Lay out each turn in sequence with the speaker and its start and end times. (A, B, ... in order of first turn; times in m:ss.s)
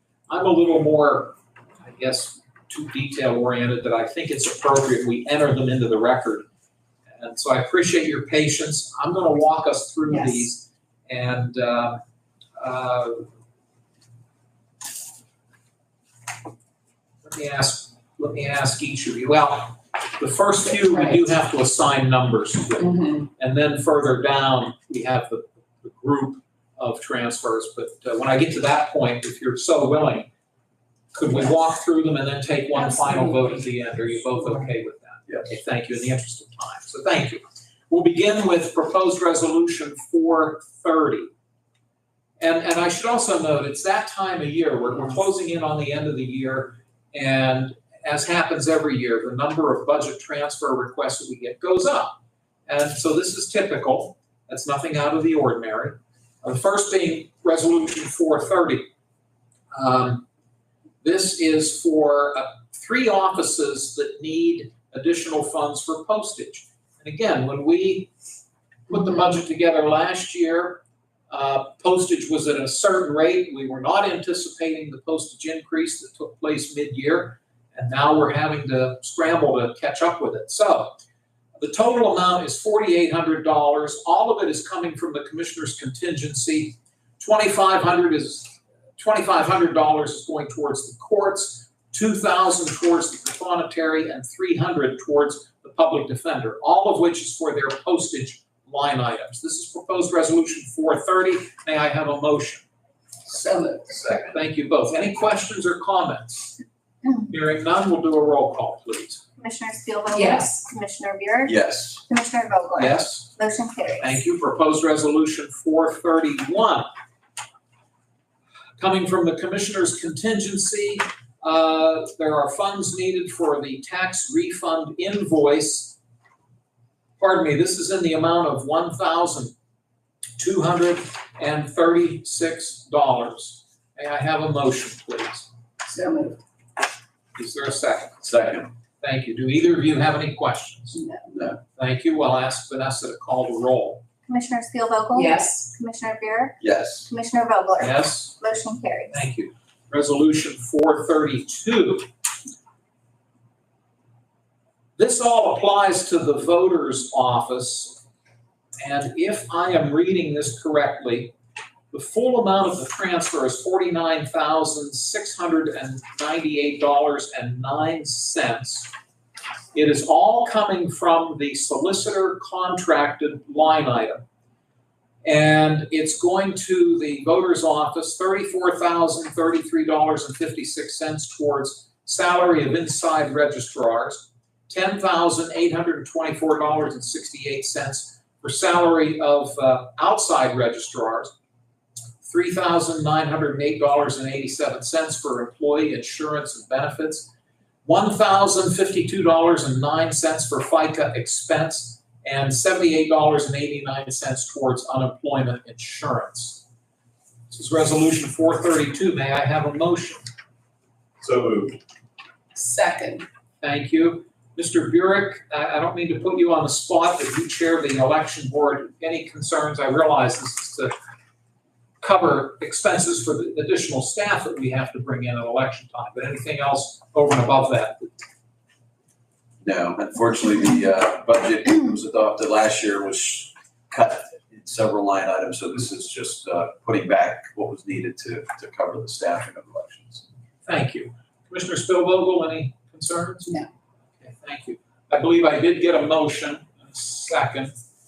0:00.3-0:06.5 A
0:07.2-0:12.0 A
0:10.1-0:10.5 B
0:12.6-0:13.3 A
0:17.2-0:30.3 A
0:22.8-0:23.3 B
0:31.1-0:41.3 A
0:32.8-0:33.6 B
0:34.4-0:34.7 B
0:42.4-0:58.9 A
0:59.7-1:00.3 A
1:01.0-1:08.1 A
1:08.9-1:20.9 A
1:21.6-1:42.6 A
1:43.3-1:44.2 B
1:43.9-1:46.6 A
1:47.3-1:49.2 A
1:49.4-1:51.6 C
1:50.1-1:50.6 B
1:51.5-1:52.0 D
1:52.1-1:54.2 C
1:52.8-1:53.3 A
1:54.0-1:56.9 A
1:58.8-2:06.0 A
2:07.2-2:09.5 A
2:10.4-2:15.5 A
2:15.9-2:16.4 B
2:17.4-2:18.2 A
2:18.2-2:18.7 D
2:19.0-2:21.0 A
2:20.9-2:21.3 B
2:21.3-2:21.6 D
2:21.8-2:24.0 A
2:24.3-2:29.2 C
2:25.1-2:25.7 B
2:26.6-2:27.1 D
2:27.8-2:28.4 A
2:29.1-2:32.1 A
2:35.0-2:38.0 A
2:38.8-2:41.3 A
2:41.9-2:48.9 A
2:49.7-2:54.2 A
2:55.2-3:11.3 A
3:12.2-3:17.3 A
3:17.8-3:26.6 A
3:27.5-3:30.2 A
3:31.2-3:31.8 D
3:32.6-3:33.2 B
3:33.6-3:40.9 A
3:42.0-3:48.1 A
3:49.6-4:00.2 D
4:00.6-4:03.6 A
4:04.2-4:07.7 A